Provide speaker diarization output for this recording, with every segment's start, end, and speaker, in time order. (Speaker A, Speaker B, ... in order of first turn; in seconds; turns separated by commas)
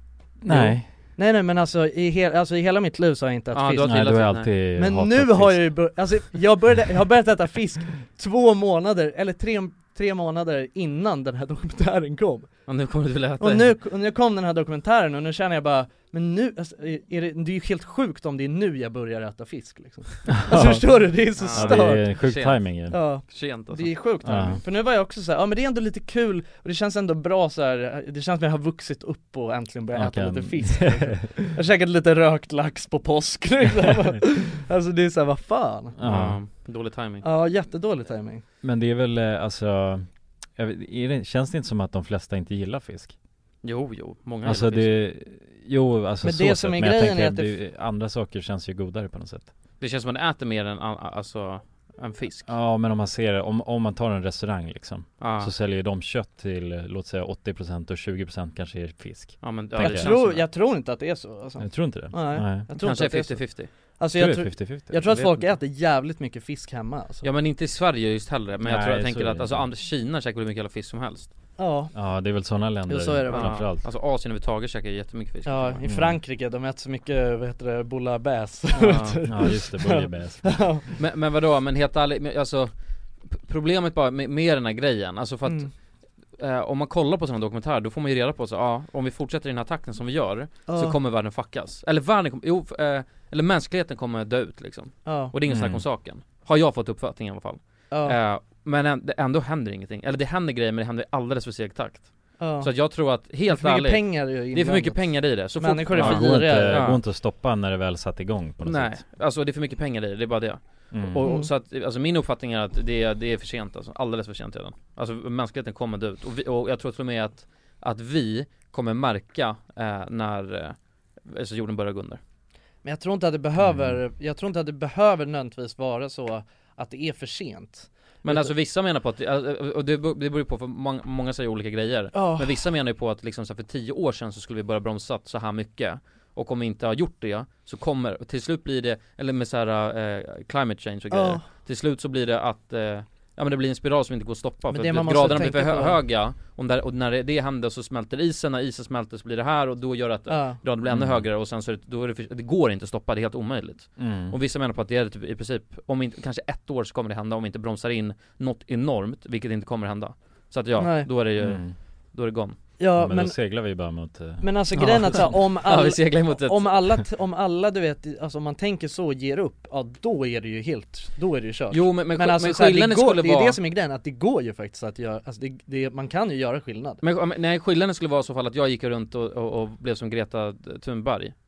Speaker A: 0.4-0.9, Speaker B: 0.5-4.0, Speaker C: 3.5-4.5, Speaker A: 3.8-5.7, Speaker B: 4.8-12.5, Speaker C: 12.7-13.7, Speaker B: 13.4-22.1, Speaker A: 20.3-23.0, Speaker C: 21.4-23.9, Speaker B: 22.9-36.0, Speaker A: 24.2-24.6, Speaker A: 29.9-31.5, Speaker A: 36.0-36.4, Speaker C: 36.0-37.2, Speaker B: 37.2-38.4, Speaker A: 38.6-43.1, Speaker C: 43.6-44.9, Speaker A: 44.4-49.5, Speaker B: 46.2-47.6, Speaker C: 49.8-52.5, Speaker A: 52.5-60.1, Speaker C: 55.2-55.5, Speaker C: 59.4-60.5, Speaker B: 59.8-67.3, Speaker A: 61.6-62.6, Speaker C: 62.8-63.7, Speaker A: 64.1-65.2, Speaker C: 65.1-65.5, Speaker C: 67.2-71.3, Speaker A: 68.6-69.7, Speaker B: 71.6-71.9, Speaker A: 71.9-73.8, Speaker B: 72.9-73.6, Speaker C: 73.3-75.8, Speaker B: 75.5-80.8, Speaker A: 75.8-76.2, Speaker C: 78.7-79.2, Speaker A: 79.3-80.7, Speaker C: 81.0-82.7, Speaker C: 83.3-85.7, Speaker C: 86.4-107.0, Speaker B: 90.7-91.0, Speaker B: 95.0-95.3, Speaker A: 95.5-95.8, Speaker B: 97.9-98.2, Speaker B: 102.4-102.7, Speaker B: 103.5-106.8, Speaker A: 105.9-109.0, Speaker C: 108.6-122.2, Speaker A: 110.9-111.2, Speaker B: 111.2-111.5, Speaker B: 122.8-128.5, Speaker A: 123.6-124.0, Speaker C: 128.2-162.6, Speaker B: 132.1-132.5, Speaker B: 141.1-141.4, Speaker B: 144.7-146.0, Speaker B: 150.3-150.6, Speaker A: 150.9-151.3, Speaker A: 154.0-154.3, Speaker B: 160.8-161.1, Speaker A: 161.4-161.8, Speaker B: 162.8-163.4, Speaker A: 162.9-165.3, Speaker B: 164.4-177.0, Speaker C: 164.8-166.8, Speaker C: 171.7-173.6, Speaker C: 177.0-181.3